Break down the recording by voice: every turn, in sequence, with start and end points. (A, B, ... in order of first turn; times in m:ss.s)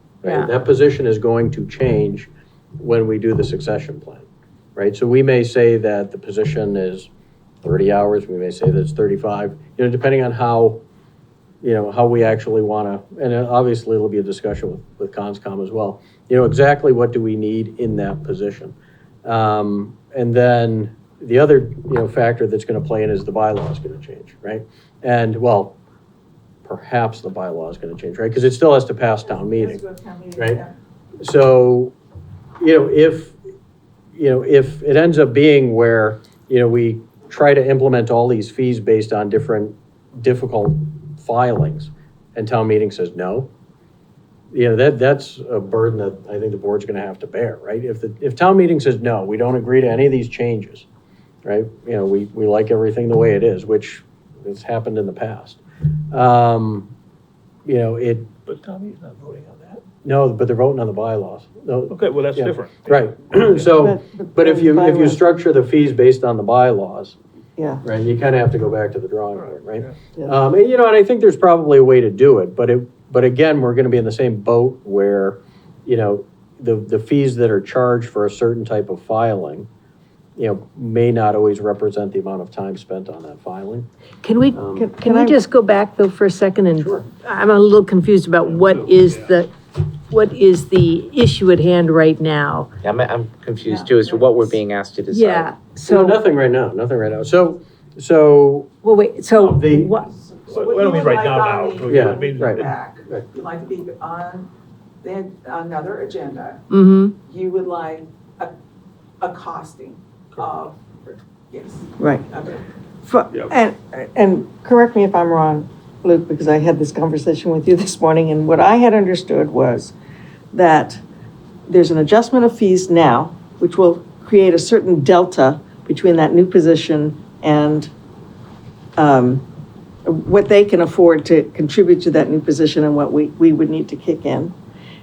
0:00.2-0:00.5 A
0:00.2-0:07.1 B
0:07.6-0:10.8 B
0:11.6-0:25.8 B
0:26.6-0:29.8 B
0:29.3-0:30.7 C
0:30.4-0:30.6 B
0:31.2-0:31.9 B
0:32.6-0:33.4 B
0:34.1-0:43.5 B
0:44.5-0:50.8 B
0:51.4-0:55.6 B
0:56.1-0:56.9 B
0:57.6-0:58.3 B
0:58.4-0:59.8 D
1:00.0-1:07.2 B
1:01.9-1:03.6 D
1:03.6-1:05.2 E
1:07.6-1:07.8 E
1:07.8-1:19.7 B
1:09.4-1:09.9 D
1:20.4-1:23.9 B
1:24.2-1:29.5 A
1:24.5-1:24.9 B
1:24.8-1:25.4 E
1:26.8-1:27.0 B
1:28.4-1:29.4 D
1:30.1-1:32.7 A
1:32.8-1:35.5 F
1:33.6-1:34.6 C
1:35.1-1:36.2 A
1:35.9-1:38.7 B
1:38.8-1:40.1 A
1:39.4-1:44.5 C
1:39.4-1:39.9 B
1:40.5-1:42.6 D
1:41.9-1:43.2 B
1:45.0-1:46.6 C
1:46.7-1:47.2 A
1:47.2-1:48.5 C
1:49.2-1:52.6 C
1:52.0-1:52.2 E
1:53.0-1:59.9 E
2:00.5-2:01.0 E
2:01.7-2:07.9 E
2:09.0-2:09.4 E
2:10.0-2:14.5 E